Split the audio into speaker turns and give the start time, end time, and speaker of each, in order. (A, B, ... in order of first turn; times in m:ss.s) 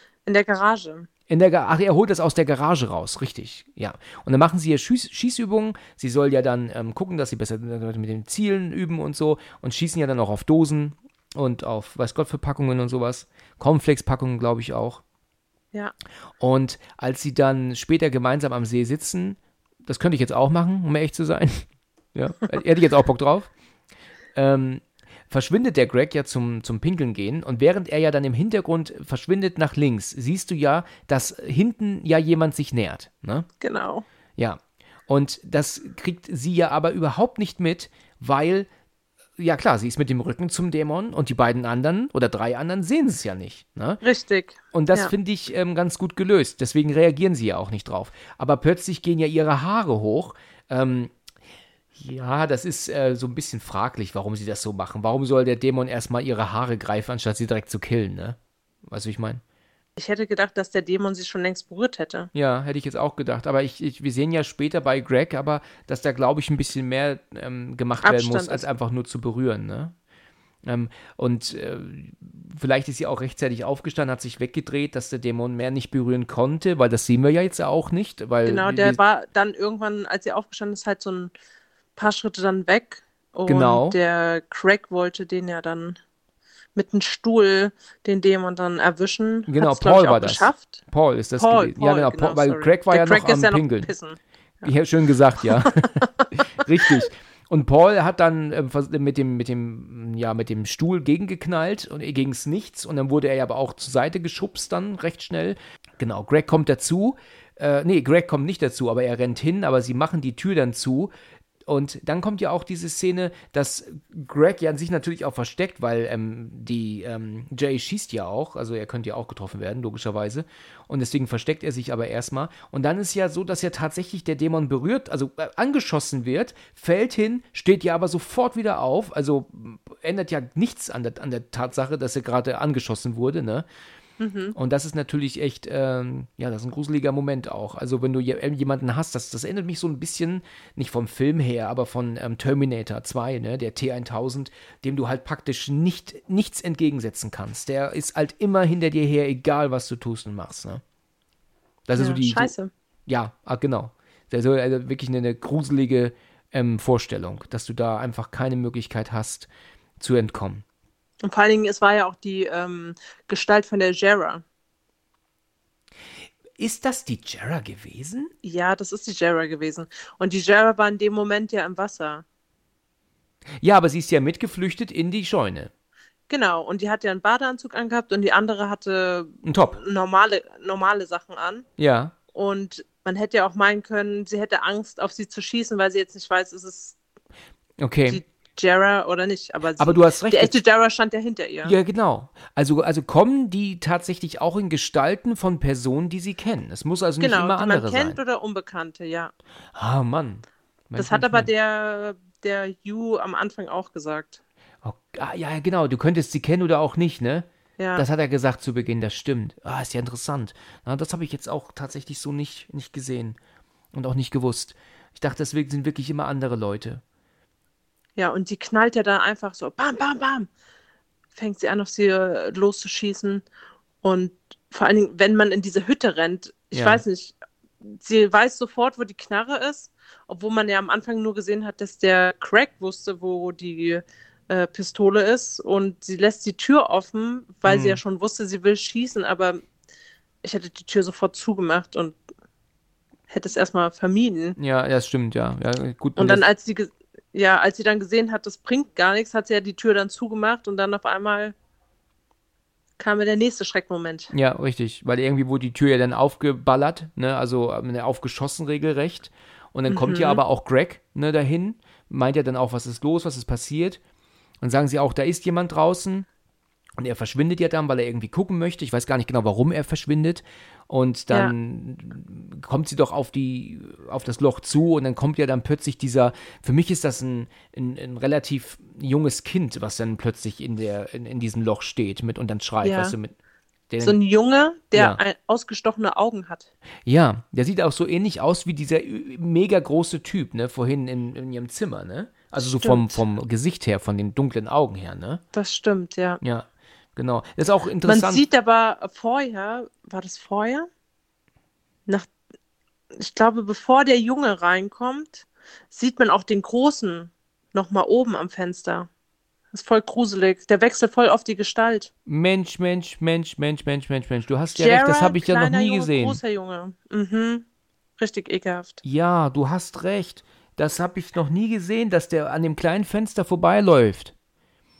0:00.2-0:01.1 A
0:01.3-0:15.0 B
0:16.4-0:23.5 B
0:24.3-0:33.5 B
0:33.6-0:34.0 A
0:34.4-0:38.7 B
0:39.4-0:44.0 B
0:44.0-0:45.1 A
0:44.7-0:51.1 B
0:51.9-0:59.4 B
1:00.0-1:02.3 A
1:02.3-1:09.9 B
1:08.0-1:08.6 A
1:10.6-1:19.0 B
1:18.4-1:21.3 A
1:22.0-1:26.0 A
1:23.5-1:24.0 B
1:26.7-1:30.8 A
1:29.5-1:33.9 B
1:31.4-1:34.7 A
1:34.6-1:51.1 B
1:35.6-1:36.2 A
1:51.6-2:13.6 B
2:14.2-2:14.6 A
2:14.6-2:30.8 B
2:31.9-2:32.5 B
2:32.0-2:32.7 A
2:33.1-2:40.6 B
2:41.2-2:44.4 A
2:46.6-2:48.3 B
2:48.4-2:52.2 A
2:53.6-2:55.7 B
2:56.3-3:01.6 A
2:59.4-2:59.8 B
3:01.8-3:02.1 B
3:02.3-3:07.0 A
3:07.8-3:08.2 B
3:08.1-3:11.7 A
3:09.8-3:10.5 B
3:11.6-3:18.2 B
3:17.2-3:19.3 A
3:19.7-3:21.5 B
3:21.0-3:24.4 A
3:24.8-3:33.4 B
3:27.8-3:28.0 A
3:33.9-3:37.0 B
3:38.2-3:40.5 A
3:41.4-3:43.4 A
3:44.0-3:59.6 A
3:46.7-3:47.0 B
3:57.6-3:58.0 B
4:00.4-4:02.2 A
4:03.3-4:04.6 A
4:04.6-4:06.5 B
4:06.2-4:11.5 A
4:13.0-4:14.3 A
4:14.3-4:24.0 B
4:19.9-4:20.4 A
4:24.6-4:26.3 B
4:27.0-4:43.3 B
4:42.8-4:43.2 A
4:43.9-4:44.2 B
4:44.0-4:46.7 A
4:44.9-4:45.2 B
4:47.0-4:55.4 B
4:52.6-4:53.2 A
4:55.5-4:56.4 A
4:56.4-4:58.4 B
4:58.0-5:00.9 A
5:03.1-5:09.1 A
5:09.7-5:12.1 A
5:12.3-5:16.4 B
5:14.7-5:17.6 A
5:18.2-5:19.0 A
5:19.0-5:24.3 B